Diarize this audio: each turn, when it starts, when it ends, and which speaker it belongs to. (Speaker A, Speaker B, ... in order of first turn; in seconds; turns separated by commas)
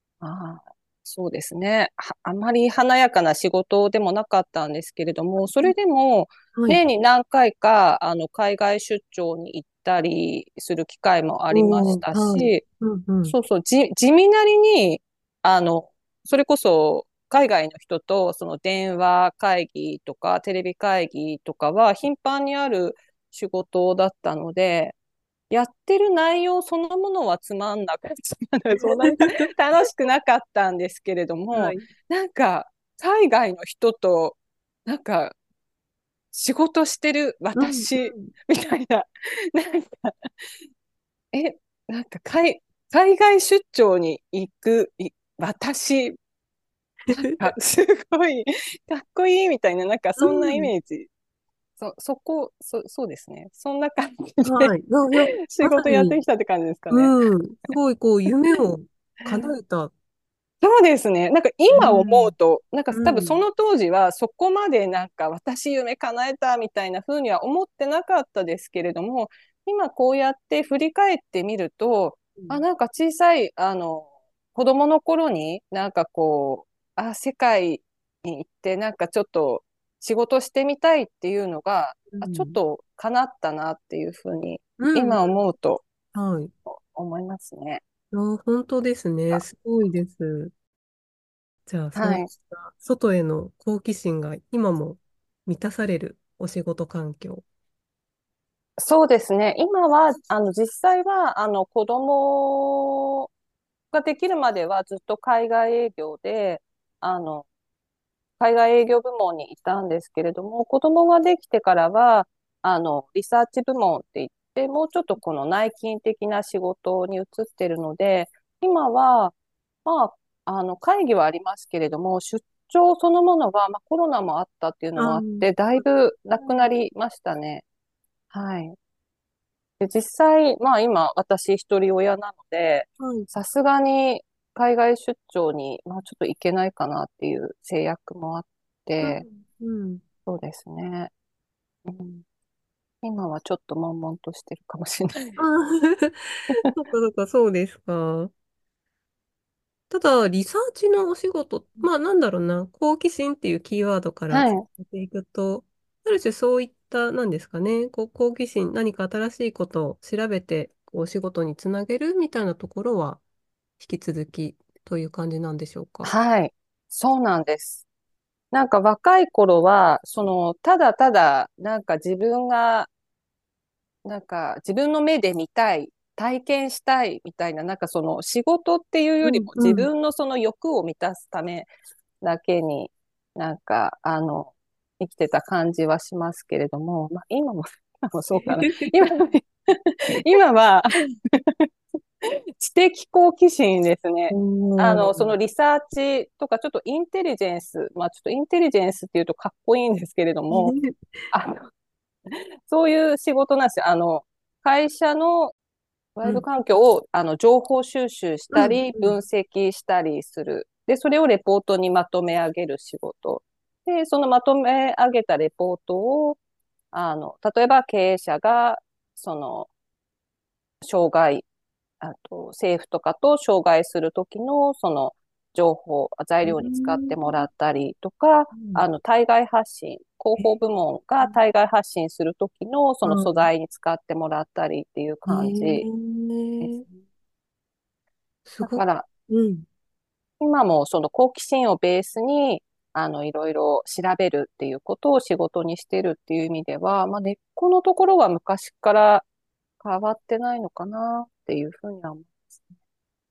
Speaker A: 0.2-12.6, Speaker B: 11.5-13.3, Speaker A: 13.3-24.9, Speaker A: 25.5-35.4, Speaker B: 29.1-29.4, Speaker B: 31.5-31.9, Speaker A: 36.3-40.1, Speaker B: 37.6-38.3, Speaker A: 41.3-46.2, Speaker B: 47.1-47.4, Speaker A: 47.1-51.1, Speaker B: 50.2-50.7, Speaker A: 51.8-54.7, Speaker B: 54.5-56.2, Speaker A: 55.5-57.2, Speaker B: 56.9-59.9, Speaker A: 60.6-85.8, Speaker B: 61.7-62.3, Speaker B: 62.9-63.4, Speaker B: 72.4-72.6, Speaker B: 82.1-82.6, Speaker B: 84.8-85.2, Speaker B: 86.1-86.5, Speaker A: 86.7-87.8, Speaker B: 88.1-90.5, Speaker B: 91.7-97.4, Speaker A: 92.0-92.3, Speaker A: 98.8-103.0, Speaker A: 103.9-107.5, Speaker A: 108.4-127.6, Speaker B: 125.0-125.5, Speaker B: 126.4-126.7, Speaker A: 128.3-128.8, Speaker A: 129.8-139.2, Speaker B: 133.0-133.3, Speaker B: 139.0-140.0, Speaker A: 140.3-141.1, Speaker A: 141.8-142.2, Speaker A: 143.0-145.4, Speaker B: 145.4-148.3, Speaker B: 149.9-163.2, Speaker A: 154.3-154.6, Speaker B: 163.8-166.1, Speaker A: 166.0-167.8, Speaker A: 168.5-172.9, Speaker A: 174.1-181.7, Speaker B: 179.2-179.9, Speaker A: 182.2-191.7, Speaker B: 188.4-188.7, Speaker A: 192.6-200.7, Speaker B: 194.3-195.3, Speaker B: 200.5-201.1, Speaker A: 201.3-201.7, Speaker A: 202.3-205.5, Speaker A: 206.2-216.4, Speaker B: 208.5-209.2, Speaker A: 216.9-219.7, Speaker A: 220.8-221.4, Speaker A: 222.0-235.8, Speaker B: 226.4-227.4, Speaker B: 228.5-228.8, Speaker B: 233.0-233.5, Speaker B: 235.3-236.8, Speaker A: 236.6-236.9, Speaker B: 238.5-239.7, Speaker A: 238.6-239.1, Speaker A: 240.4-249.3, Speaker A: 249.8-252.7